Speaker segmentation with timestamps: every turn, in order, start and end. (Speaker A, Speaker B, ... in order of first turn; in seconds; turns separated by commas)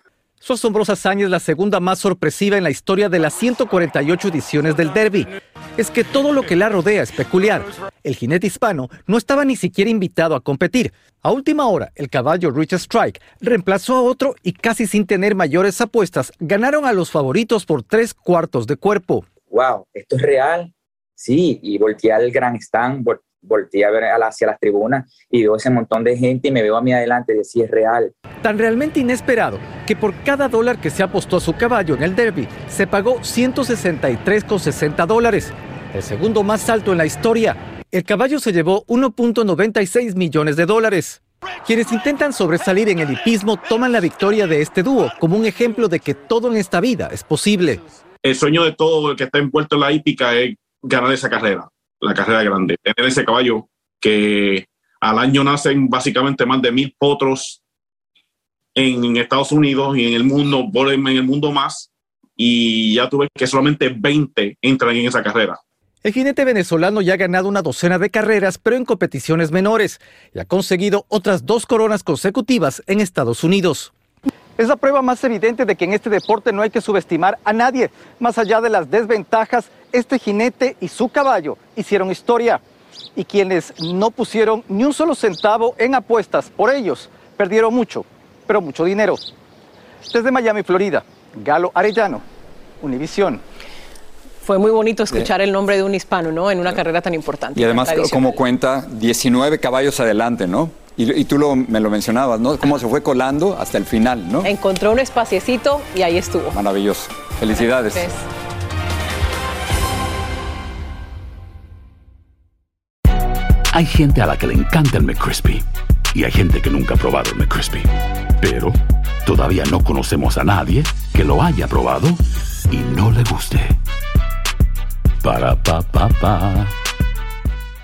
Speaker A: 0.4-19.3, Speaker B: 19.5-28.1, Speaker A: 28.4-47.8, Speaker C: 48.2-57.6, Speaker C: 58.8-65.6, Speaker A: 66.0-73.9, Speaker A: 74.6-82.6, Speaker A: 83.2-89.2, Speaker A: 90.1-92.2, Speaker A: 92.8-93.4, Speaker D: 94.4-98.4, Speaker E: 97.6-104.5, Speaker D: 104.4-106.6, Speaker E: 106.5-108.1, Speaker D: 107.9-108.2, Speaker F: 113.7-123.8, Speaker F: 125.2-126.8